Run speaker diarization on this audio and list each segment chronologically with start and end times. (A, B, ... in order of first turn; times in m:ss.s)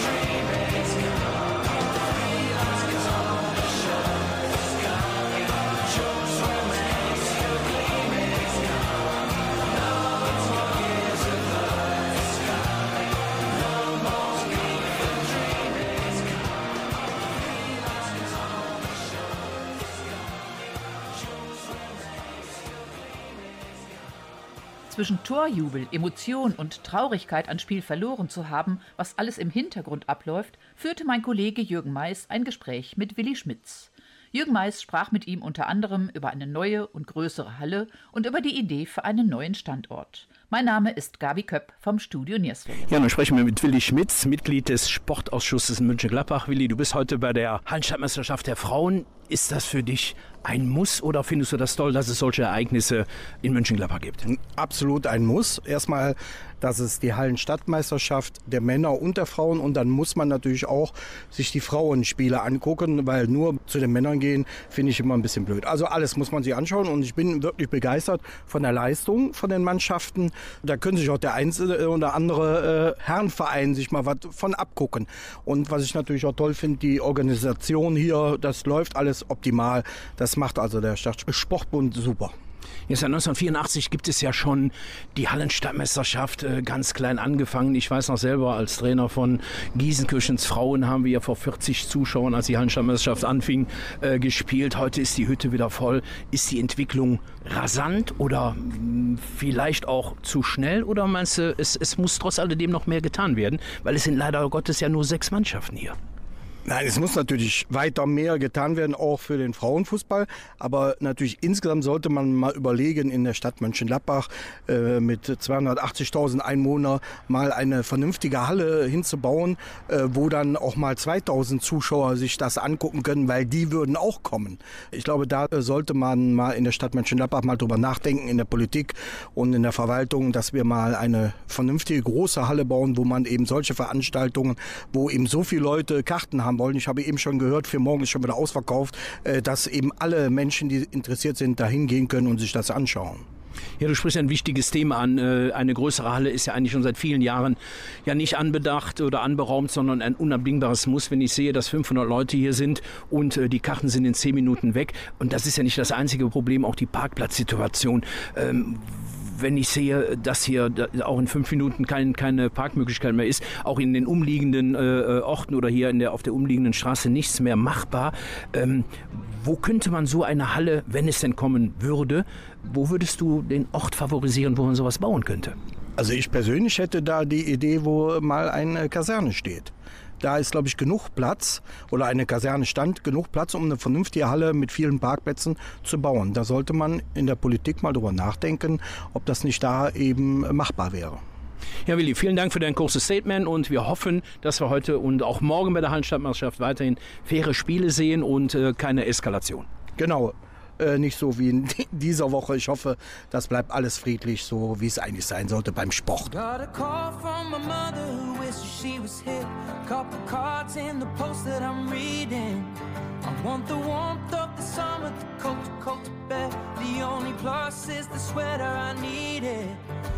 0:24.9-0:43.1 A
0:42.9-0:54.2 B
0:54.2-1:22.3 C
1:22.9-1:46.0 B
1:46.6-2:23.2 C
2:23.8-2:55.6 B
2:56.0-3:11.2 C
3:11.9-3:19.7 B
3:20.0-3:26.3 C
3:26.3-3:39.8 D